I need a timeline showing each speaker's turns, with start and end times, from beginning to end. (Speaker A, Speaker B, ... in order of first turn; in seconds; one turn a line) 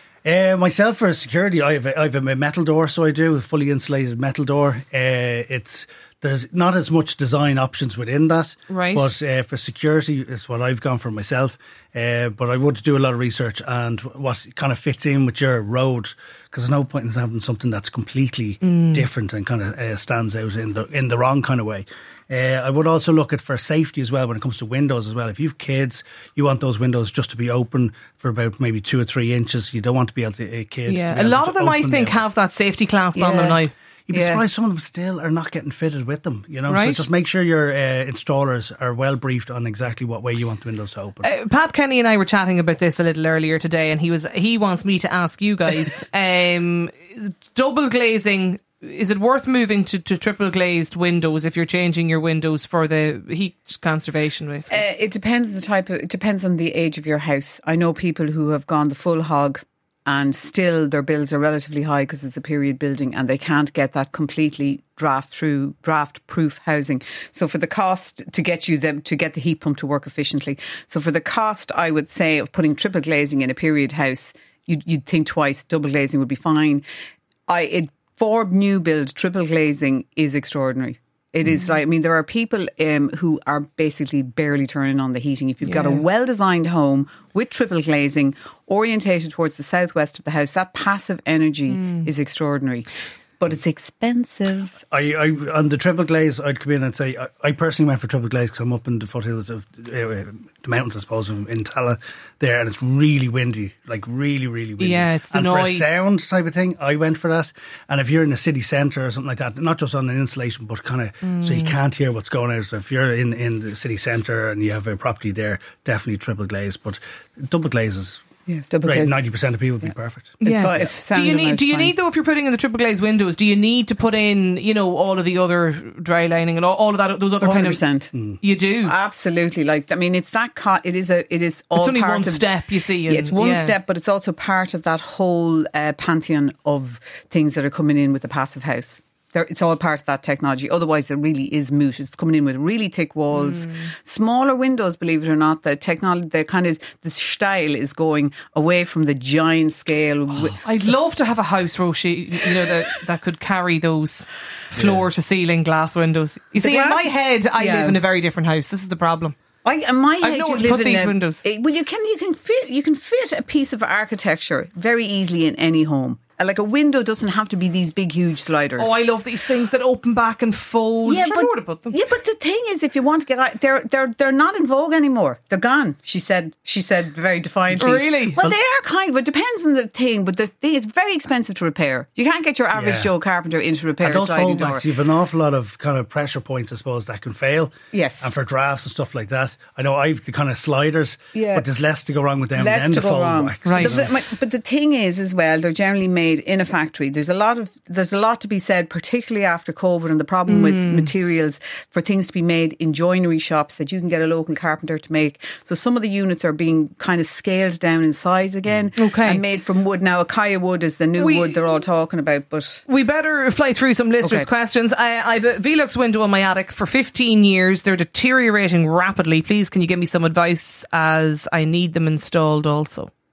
Speaker A: 0.2-32.2
Speaker B: 8.7-9.1
Speaker B: 18.6-19.0
Speaker B: 30.9-33.7
Speaker C: 33.1-34.4
Speaker A: 34.1-41.3
Speaker B: 36.7-37.0
Speaker B: 41.2-54.8
Speaker C: 54.7-76.8
Speaker C: 77.5-92.9
Speaker B: 85.6-86.0
Speaker B: 91.7-92.1
Speaker C: 93.4-94.8
Speaker A: 94.9-118.2
Speaker B: 104.8-106.0
Speaker B: 111.2-111.7
Speaker C: 118.5-119.3
Speaker A: 118.8-120.9
Speaker B: 120.4-127.8
Speaker C: 120.4-121.9
Speaker C: 127.4-128.1
Speaker A: 128.1-128.4
Speaker B: 128.4-128.9
Speaker C: 128.8-132.5
Speaker B: 131.7-133.7
Speaker C: 133.1-150.9
Speaker B: 143.3-143.9
Speaker B: 150.4-159.3
Speaker C: 156.6-158.0
Speaker C: 159.6-168.9
Speaker B: 160.2-161.4
Speaker B: 168.8-171.9
Speaker C: 171.0-184.8
Speaker B: 177.8-178.5
Speaker A: 182.7-183.1
Speaker A: 184.0-194.1
Speaker C: 187.9-188.3
Speaker C: 191.3-191.7
Speaker C: 192.6-212.8
Speaker B: 193.6-194.0
Speaker B: 200.5-201.1
Speaker B: 209.0-209.4
Speaker B: 211.2-211.8
Speaker B: 212.9-223.1
Speaker C: 214.2-214.5